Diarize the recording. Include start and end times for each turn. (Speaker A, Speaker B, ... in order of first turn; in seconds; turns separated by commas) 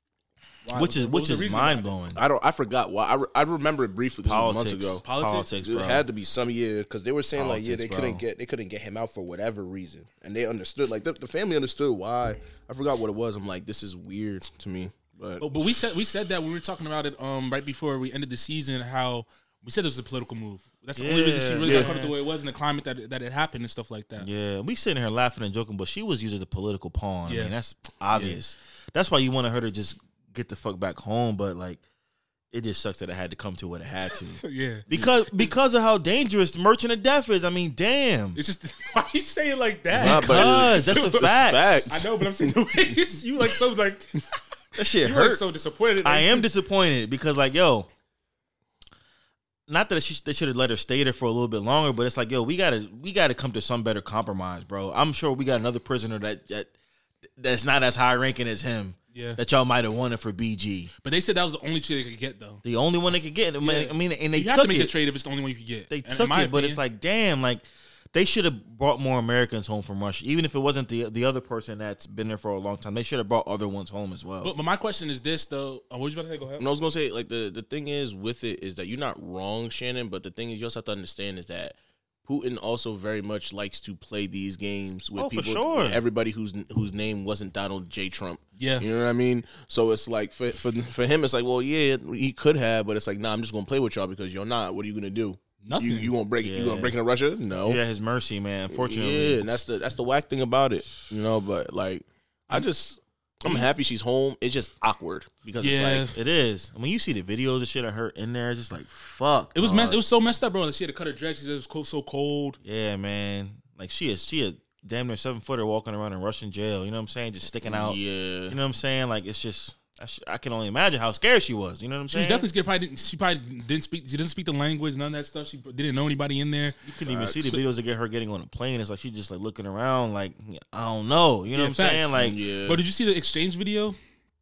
Speaker A: 0.6-1.9, Speaker B: 0.7-2.2, Speaker C: 2.1-5.0, Speaker B: 4.2-6.0, Speaker A: 5.0-5.5, Speaker C: 5.6-15.5, Speaker B: 7.3-8.2, Speaker A: 15.4-24.3, Speaker B: 20.9-22.1, Speaker C: 21.6-22.0, Speaker B: 24.2-31.8, Speaker A: 27.2-27.5, Speaker A: 28.1-28.4, Speaker B: 32.5-38.4, Speaker A: 34.4-34.8, Speaker A: 38.4-41.2, Speaker B: 39.9-41.9, Speaker C: 40.0-42.3, Speaker A: 41.9-46.5, Speaker B: 44.8-45.4, Speaker B: 46.0-47.9, Speaker B: 49.7-56.7, Speaker B: 57.3-60.9, Speaker A: 59.1-59.4, Speaker A: 61.0-62.6, Speaker B: 62.6-64.9, Speaker A: 63.6-66.8, Speaker B: 65.9-74.5, Speaker A: 74.4-76.7, Speaker C: 76.6-97.8, Speaker B: 85.2-86.0, Speaker A: 88.6-88.8, Speaker A: 95.6-96.1, Speaker B: 96.4-97.0, Speaker B: 97.6-99.5, Speaker C: 98.7-106.1, Speaker A: 105.6-106.1, Speaker B: 106.1-110.0, Speaker A: 109.5-112.6, Speaker B: 112.6-122.5, Speaker C: 117.6-118.6, Speaker A: 122.1-126.8, Speaker B: 126.8-132.4, Speaker C: 127.1-127.3, Speaker A: 131.5-134.0, Speaker C: 132.2-132.8